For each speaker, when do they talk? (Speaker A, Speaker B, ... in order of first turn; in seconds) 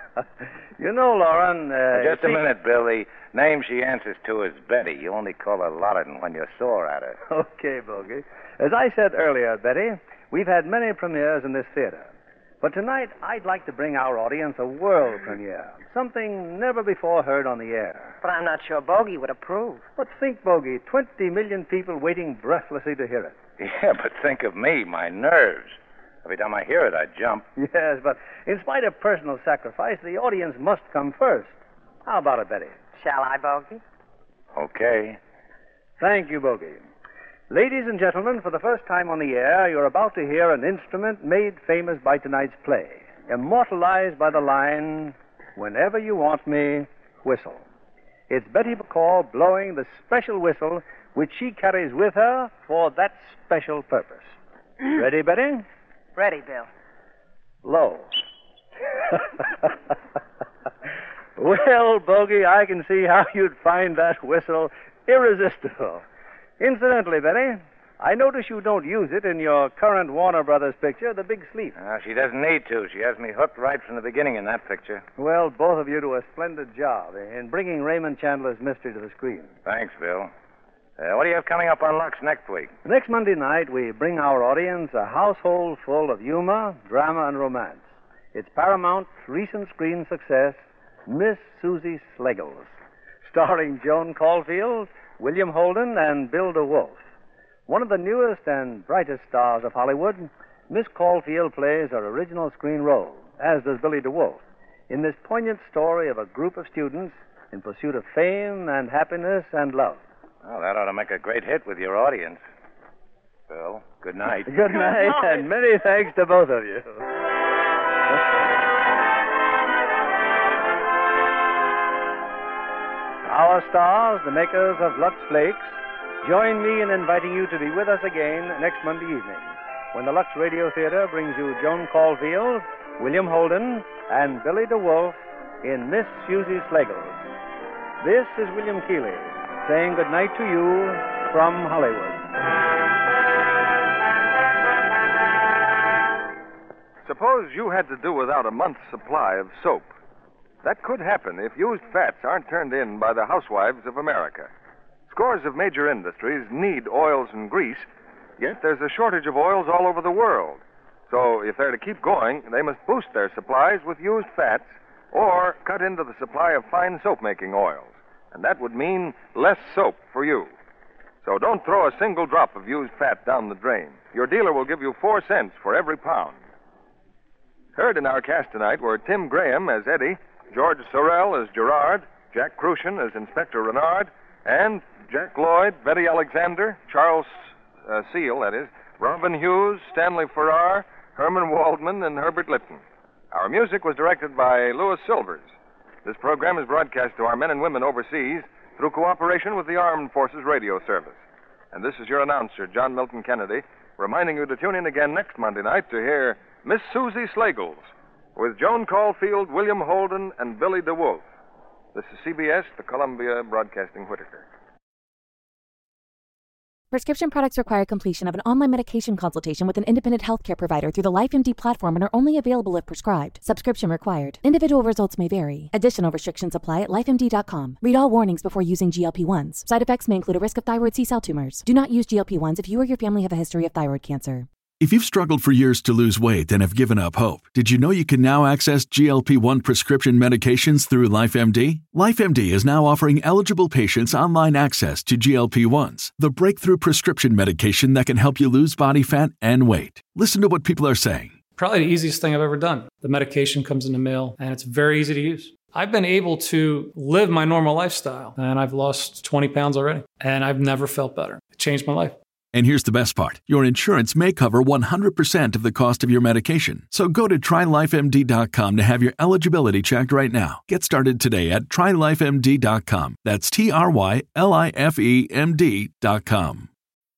Speaker A: 0.8-2.4, 7.3-12.1, 12.6-18.1, 20.0-23.4, 27.6-32.8, 36.0-36.9, 37.5-47.6, 48.3-54.3, 54.9-55.6, 57.6-58.2, 59.1-59.7, 61.4-66.0, 66.6-71.8, 75.2-79.5, 82.8-97.0, 97.7-110.0, 114.5-117.0, 123.3-137.2, 138.0-142.2
Speaker B: 1.9-7.2, 23.6-27.5, 34.5-35.2, 71.8-75.0, 79.7-80.3, 81.0-82.7, 110.4-112.4, 113.5-114.8
Speaker C: 18.2-19.9, 33.0-33.8, 56.2-56.7
Speaker D: 147.0-149.9, 150.6-154.5, 155.1-157.9, 158.4-170.5, 171.2-176.4, 177.8-211.3, 211.9-214.5
Speaker E: 216.9-234.5
Speaker F: 234.8-251.5, 262.5-276.7
Speaker G: 251.5-262.2